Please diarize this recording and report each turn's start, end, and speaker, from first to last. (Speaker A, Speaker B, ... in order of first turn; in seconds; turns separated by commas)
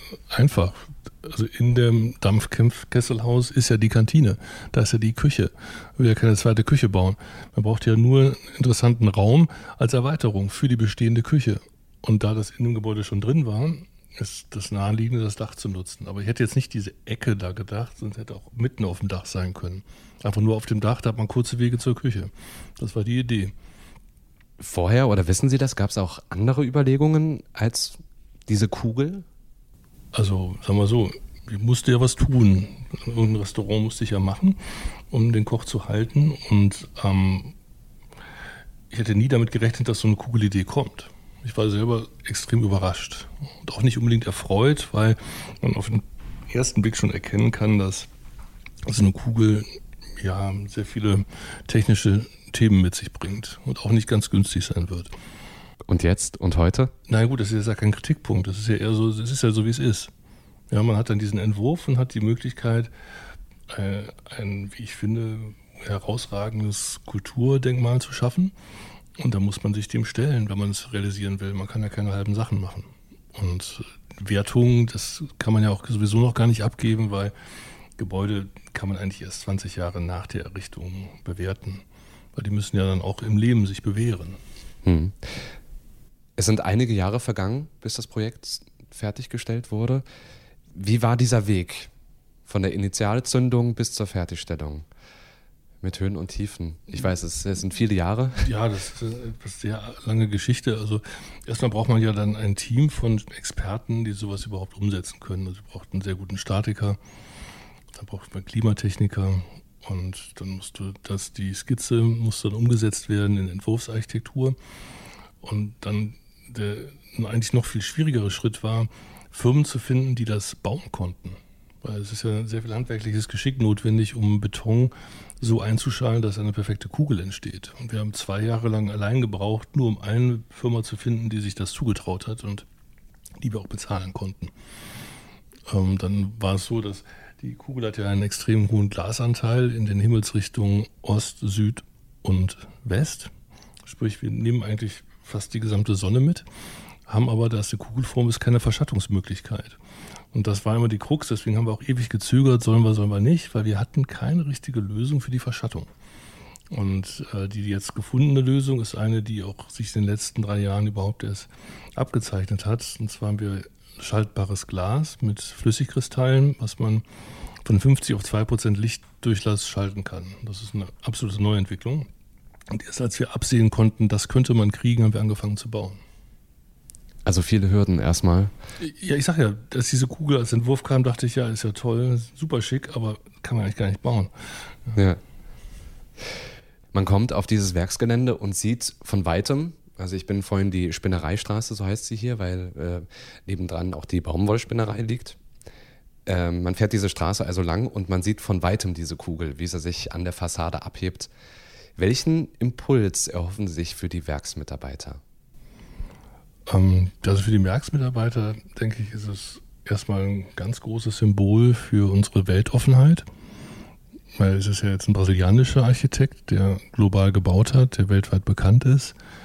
Speaker A: 0.3-23.5, Speaker B: 24.6-29.2, Speaker A: 30.1-34.6, Speaker A: 35.1-37.5, Speaker A: 38.9-48.1, Speaker A: 48.9-49.7, Speaker A: 50.2-55.1, Speaker B: 55.9-56.9, Speaker A: 57.1-60.1, Speaker A: 60.7-62.9, Speaker A: 63.7-68.5, Speaker A: 69.2-77.3, Speaker A: 78.0-81.8, Speaker A: 82.3-84.4, Speaker B: 84.8-85.4, Speaker B: 86.4-90.0, Speaker B: 90.7-91.9, Speaker B: 92.5-94.8, Speaker B: 95.8-98.5, Speaker A: 98.4-107.0, Speaker A: 107.9-114.5, Speaker A: 115.4-132.6, Speaker A: 133.4-134.5, Speaker A: 135.7-143.3, Speaker A: 143.8-146.4, Speaker A: 147.1-149.8, Speaker A: 150.3-155.9, Speaker A: 156.7-167.0, Speaker A: 167.6-172.1, Speaker A: 172.7-176.0, Speaker B: 177.2-178.5, Speaker A: 178.8-184.3, Speaker B: 186.9-195.4, Speaker B: 196.2-201.3, Speaker B: 202.0-205.2, Speaker A: 206.7-213.2, Speaker A: 214.3-219.1